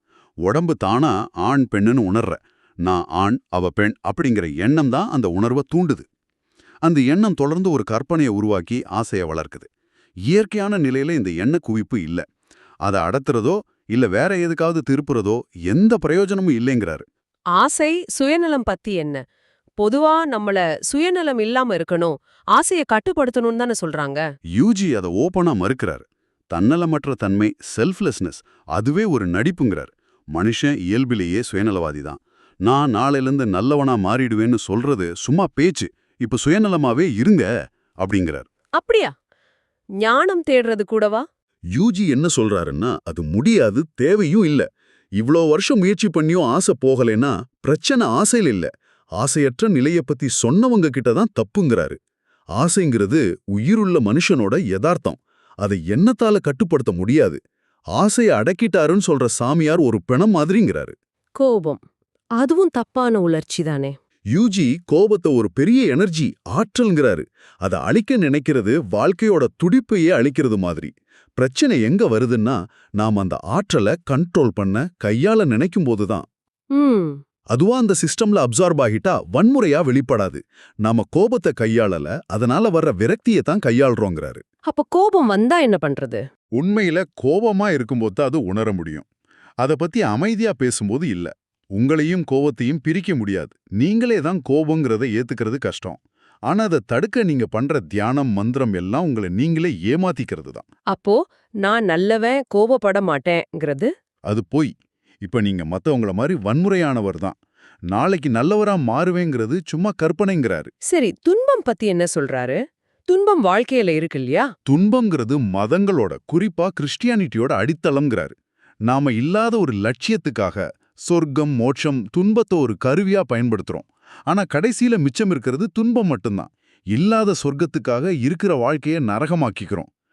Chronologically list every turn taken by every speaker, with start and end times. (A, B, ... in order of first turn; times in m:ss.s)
0:00.4-0:06.0 A
0:06.8-0:09.7 A
0:10.3-0:12.2 A
0:12.8-0:17.0 A
0:17.5-0:19.2 B
0:19.8-0:24.2 B
0:24.6-0:37.5 A
0:38.0-0:38.4 A
0:38.8-0:39.1 B
0:40.0-0:41.2 B
0:41.7-0:44.6 A
0:45.2-0:52.0 A
0:52.6-0:57.4 A
0:57.9-1:00.9 A
1:01.4-1:01.8 B
1:02.4-1:03.9 B
1:04.3-1:16.2 A
1:16.8-1:17.2 B
1:17.5-1:24.4 A
1:24.7-1:26.2 B
1:26.6-1:29.0 A
1:29.6-1:40.6 A
1:40.9-1:43.9 B
1:44.3-1:44.7 A
1:45.2-1:47.4 A
1:47.9-1:50.7 A
1:50.9-1:52.6 B
1:53.1-1:54.5 B
1:54.6-1:58.3 A
1:58.9-2:09.9 A